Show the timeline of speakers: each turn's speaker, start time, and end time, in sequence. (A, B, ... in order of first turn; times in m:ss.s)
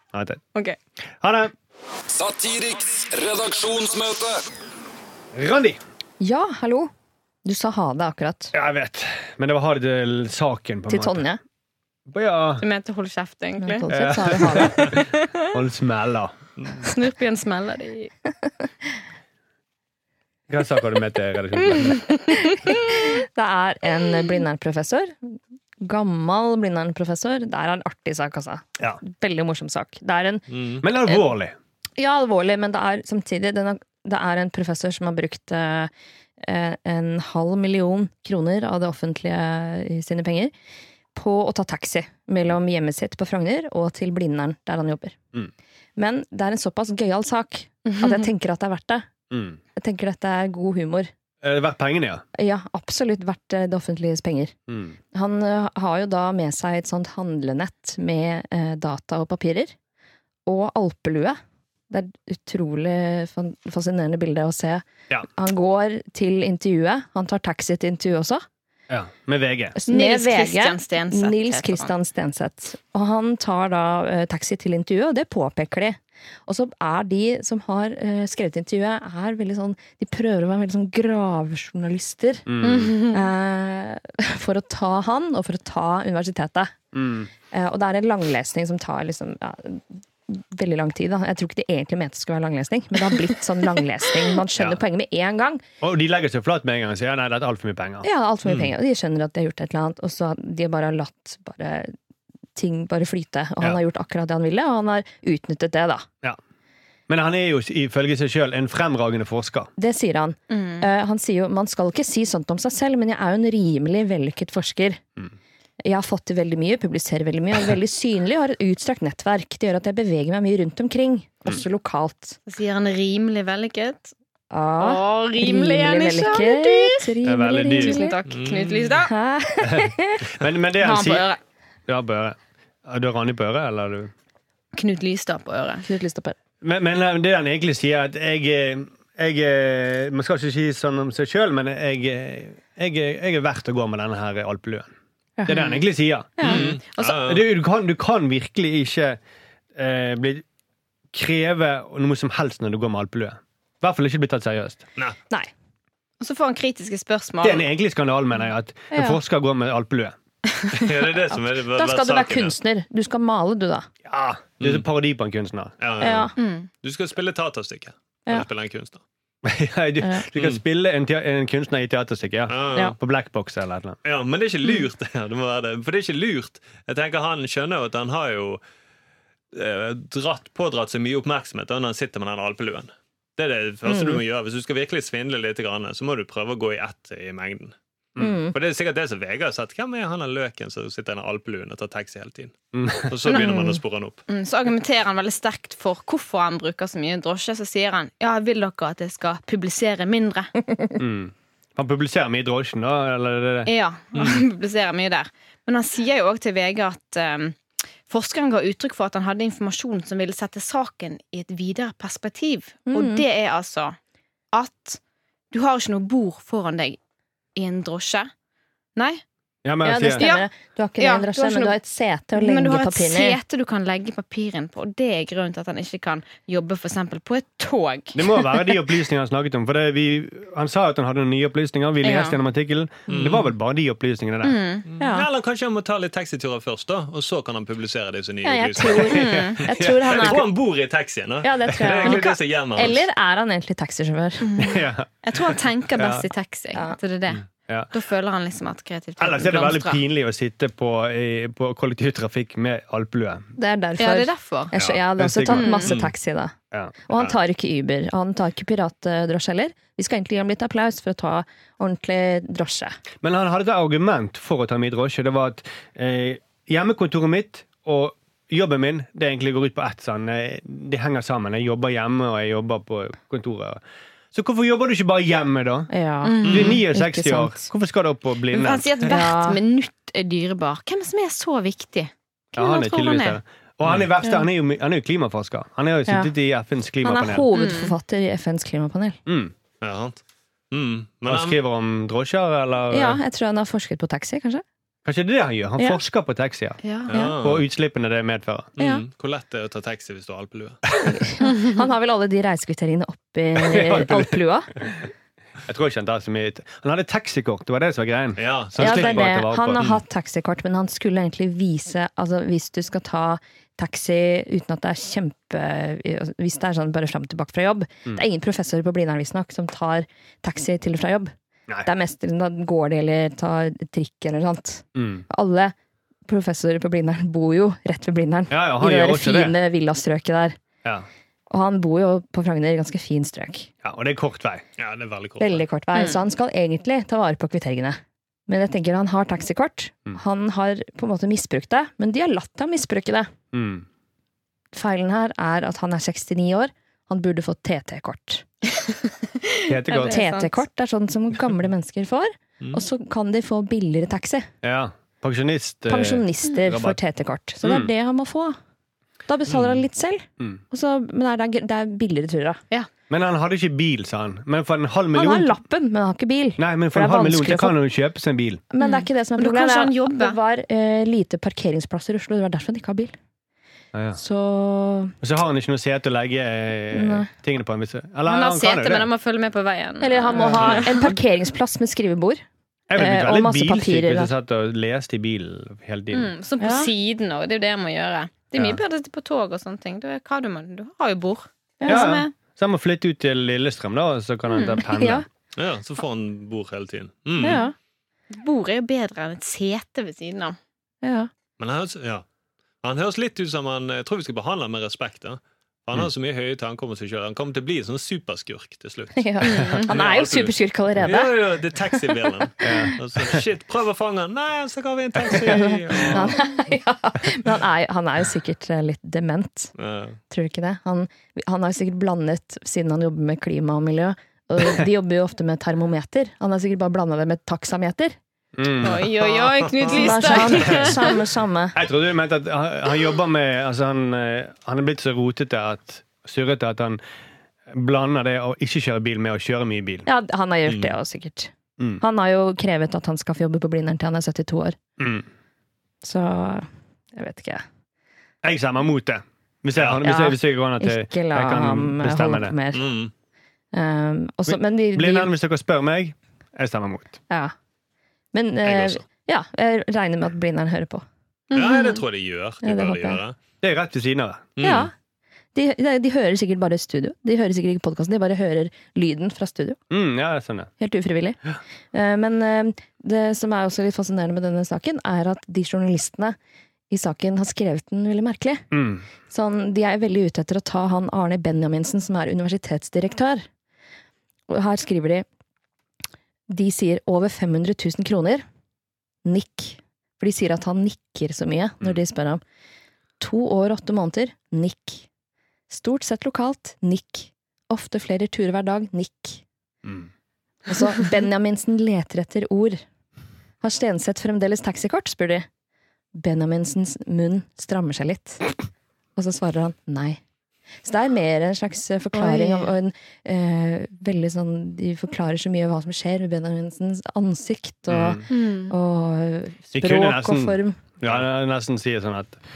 0:00.1-0:00.4 A
0:01.2-0:01.5 A
0:02.1-0:04.4 B
0:05.3-0:05.8 A
0:06.2-0:06.9 C
0:07.4-0:08.5 C
0:08.5-0:11.2 A
0:10.9-0:11.4 C
0:12.1-0:12.6 A
0:12.6-0:13.9 D
0:13.6-0:15.0 C
0:13.9-0:16.3 A
0:14.9-0:15.4 D
0:16.6-0:16.9 E
0:16.8-0:18.1 D
0:20.5-0:22.2 A
0:22.5-0:30.5 C
0:30.5-0:30.8 E
0:30.8-0:31.6 A
0:32.0-0:40.5 C
0:41.1-0:45.2 C
0:46.0-0:49.0 C
0:49.3-0:49.6 A
0:49.8-0:51.1 C
0:51.4-0:52.2 A
0:52.4-0:54.5 C
0:54.7-0:55.0 A
0:55.1-0:59.8 C
1:00.5-1:01.4 C
1:01.9-1:08.4 C
1:08.9-1:09.8 A
1:09.8-1:26.7 C
1:09.9-1:11.9 D
1:22.5-1:23.0 A
1:22.6-1:23.2 D
1:26.9-1:27.3 A
1:27.5-1:35.6 C
1:35.8-1:38.1 A
1:38.0-1:41.9 C
1:42.6-1:46.0 C
1:47.1-1:49.7 A
1:49.8-1:55.0 C
1:50.5-1:50.9 D
1:55.8-2:02.4 C
2:02.5-2:04.1 D
2:04.5-2:08.2 C
2:04.8-2:07.1 D
2:07.2-2:08.0 A
2:07.8-2:09.1 D
2:08.3-2:09.1 E
2:09.0-2:10.3 C
2:09.6-2:11.3 A
2:10.8-2:11.4 D
2:11.9-2:14.1 A
2:14.7-2:15.9 D
2:15.8-2:16.4 C
2:16.6-2:24.9 A
2:25.4-2:25.8 C
2:25.5-2:29.2 A
2:26.4-2:27.4 E
2:26.4-2:27.1 D
2:29.8-2:30.4 A
2:31.1-2:34.8 A
2:36.2-2:37.7 D
2:37.4-2:40.2 A
2:38.9-2:39.2 C
2:40.7-2:42.5 E
2:41.3-2:43.9 C
2:44.0-2:45.7 A
2:44.6-2:44.9 E
2:45.8-2:49.0 E
2:46.0-2:46.3 C
2:46.4-2:46.7 D
2:49.4-2:54.0 A
2:50.0-2:50.2 C
2:52.5-2:53.0 E
2:54.0-2:58.6 E
2:59.5-3:07.8 E
3:03.8-3:04.2 C
3:08.2-3:08.6 C
3:08.5-3:14.2 E
3:12.7-3:13.2 A
3:13.3-3:13.8 D
3:14.3-3:20.6 D
3:21.0-3:23.7 A
3:23.7-3:34.0 D
3:32.9-3:33.2 C
3:34.5-3:35.0 D
3:35.5-3:37.0 D
3:37.6-3:38.3 D
3:39.0-3:39.2 D
3:39.6-3:40.3 A
3:39.8-3:43.4 C
3:40.2-3:40.5 D
3:41.0-3:41.8 D
3:42.4-3:48.8 D
3:48.2-3:54.6 A
3:52.0-3:52.4 D
3:53.1-3:53.5 E
3:54.4-3:54.9 D
3:54.9-4:03.1 E
3:55.0-3:55.3 C
3:58.4-4:00.5 C
3:59.1-3:59.7 D
3:59.6-4:00.4 A
4:01.4-4:04.5 C
4:01.7-4:02.1 A
4:04.5-4:10.0 D
4:04.6-4:06.3 A
4:09.2-4:13.5 A
4:13.6-4:16.6 C
4:14.0-4:14.7 D
4:14.8-4:16.0 A
4:15.5-4:15.9 D
4:17.1-4:23.0 C
4:23.2-4:33.8 A
4:34.3-4:35.9 A
4:35.9-4:37.7 C
4:36.2-4:36.8 D
4:36.4-4:39.0 A
4:36.4-4:36.8 E
4:38.5-4:43.4 D
4:39.1-4:39.6 C
4:42.6-4:47.5 A
4:47.0-4:49.2 C
4:47.5-4:47.9 D
4:49.3-4:49.5 A
4:49.8-4:50.2 E
4:50.7-4:51.6 E
4:51.3-4:53.2 A
4:52.9-4:54.6 C
4:55.0-4:58.7 A
4:55.8-4:56.0 C
4:56.8-4:57.4 D
4:57.1-4:57.7 E
4:58.8-5:00.8 E
4:58.8-4:59.0 C
5:01.1-5:04.7 C
5:03.6-5:04.9 A
5:05.7-5:09.9 A
5:08.4-5:10.0 E
5:08.8-5:21.3 C
5:21.8-5:25.8 C
5:25.0-5:25.3 A
5:26.3-5:30.6 C
5:28.5-5:29.6 A
5:31.5-5:33.7 C
5:33.8-5:34.6 A
5:34.8-5:35.6 E
5:35.4-5:43.3 C
5:35.9-5:36.2 D
5:43.5-5:43.8 A
5:44.7-5:48.4 C
5:49.4-5:50.6 D
5:49.7-5:50.2 A
5:50.0-5:54.5 C
5:54.6-5:57.0 A
5:55.9-5:58.6 C
5:57.6-5:57.9 A
5:59.3-6:02.6 C
6:03.1-6:05.6 A
6:05.1-6:07.8 C
6:06.6-6:08.6 A
6:08.7-6:13.2 C
6:08.8-6:10.4 D
6:13.9-6:14.2 A
6:14.2-6:15.2 C
6:15.2-6:19.1 A
6:16.9-6:17.3 C
6:18.3-6:21.1 D
6:20.0-6:22.4 C
6:20.6-6:20.9 E
6:22.9-6:26.3 A
6:23.0-6:24.3 C
6:26.1-6:32.3 D
6:26.6-6:26.9 C
6:28.6-6:28.8 A
6:31.8-6:32.2 C
6:31.9-6:35.3 A
6:34.5-6:34.8 D
6:34.8-6:35.2 C
6:35.6-6:37.6 E
6:37.4-6:37.7 C
6:37.4-6:37.7 D
6:38.3-6:40.6 D
6:41.0-6:41.3 C
6:41.6-6:42.2 E
6:42.8-6:56.4 E
6:49.2-6:51.4 C
6:49.4-6:49.9 D
6:52.6-6:52.9 C
6:52.6-6:53.0 A
6:55.3-6:59.7 C
6:59.8-7:00.2 E
7:00.3-7:08.2 C
7:08.6-7:09.1 A
7:08.8-7:11.2 D
7:08.8-7:10.8 E
7:09.9-7:11.8 C
7:10.6-7:11.0 A
7:11.8-7:17.0 A
7:17.7-7:20.1 A
7:20.1-7:24.8 C
7:20.7-7:20.9 E
7:25.0-7:25.3 A
7:26.0-7:27.6 C
7:28.4-7:32.6 A
7:30.0-7:32.9 C
7:32.7-7:33.1 E
7:33.7-7:35.3 C
7:34.5-7:37.2 A
7:38.3-7:41.0 C
7:38.6-7:39.0 E
7:41.5-7:42.0 D
7:41.5-7:43.4 E
7:42.6-7:43.2 C
7:43.6-7:44.5 A
7:44.6-7:44.9 E
7:44.6-7:44.9 C
7:45.6-7:49.8 C
7:49.9-7:50.7 A
7:50.8-7:51.4 C
7:51.9-7:56.4 C
7:56.9-7:58.6 C
7:58.7-7:59.0 A
7:59.3-8:03.4 C
8:04.5-8:05.2 C
8:06.5-8:08.4 C
8:09.2-8:12.4 C
8:13.2-8:15.1 C
8:15.7-8:19.4 C
8:20.7-8:22.8 C
8:23.6-8:25.5 C
8:26.2-8:28.5 C
8:29.2-8:30.2 C
8:30.8-8:40.8 C
8:32.1-8:32.7 D
8:37.9-8:38.2 A
8:38.3-8:38.8 D
8:39.7-8:42.4 A